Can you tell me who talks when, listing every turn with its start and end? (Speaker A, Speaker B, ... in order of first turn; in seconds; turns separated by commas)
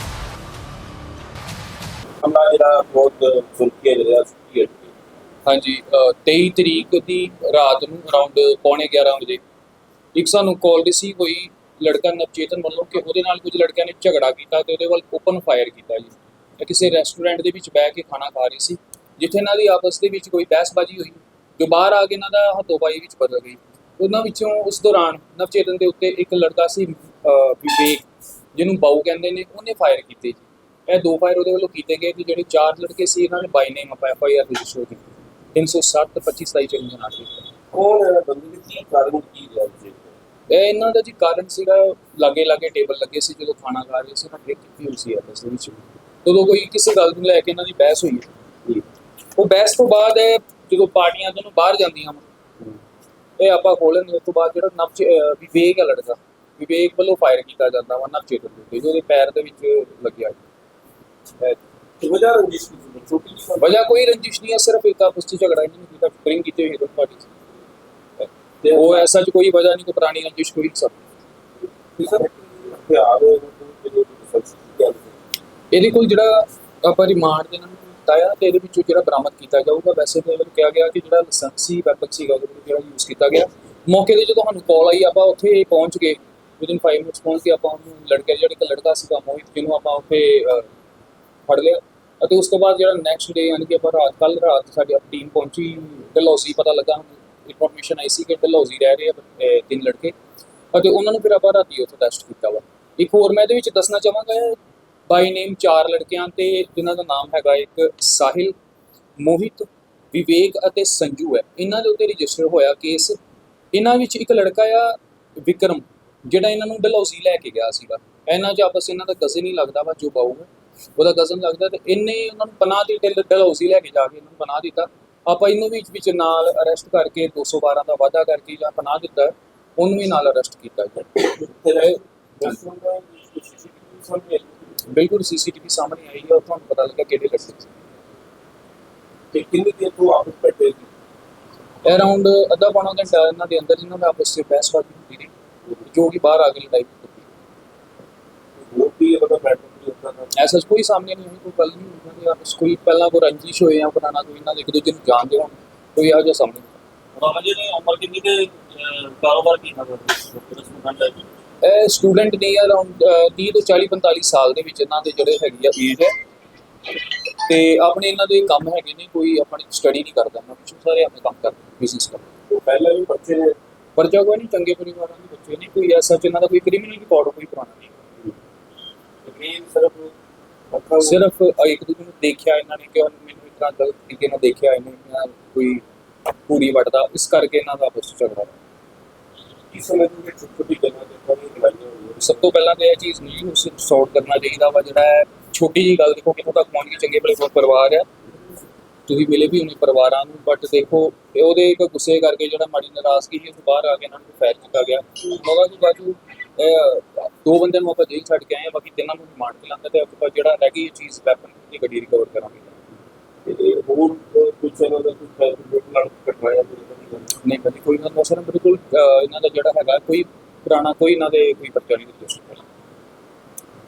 Speaker A: 2.2-4.9, Speaker B: 5.5-9.4, Speaker B: 10.1-37.4, Speaker A: 37.7-40.1, Speaker B: 40.5-48.8, Speaker B: 49.4-52.3, Speaker B: 53.4-60.4, Speaker A: 62.0-63.8, Speaker B: 63.6-67.3, Speaker B: 68.2-71.0, Speaker A: 68.6-69.1, Speaker A: 72.0-75.2, Speaker B: 75.7-90.7, Speaker B: 91.5-100.1, Speaker B: 100.7-104.6, Speaker B: 105.1-108.5, Speaker B: 109.2-113.2, Speaker B: 113.7-131.2, Speaker A: 131.2-134.7, Speaker B: 134.9-137.8, Speaker A: 139.3-140.9, Speaker B: 141.8-145.3, Speaker B: 145.8-147.3, Speaker A: 148.6-150.4, Speaker B: 150.3-156.8, Speaker C: 157.2-161.2, Speaker B: 161.6-166.1, Speaker B: 167.4-172.3, Speaker A: 172.5-173.6, Speaker B: 173.9-177.9, Speaker A: 179.2-180.1, Speaker A: 180.7-181.2, Speaker B: 181.0-185.8, Speaker B: 186.5-188.5, Speaker A: 189.7-192.5, Speaker B: 192.2-198.1, Speaker B: 199.1-212.7, Speaker A: 213.4-217.3, Speaker B: 217.4-222.6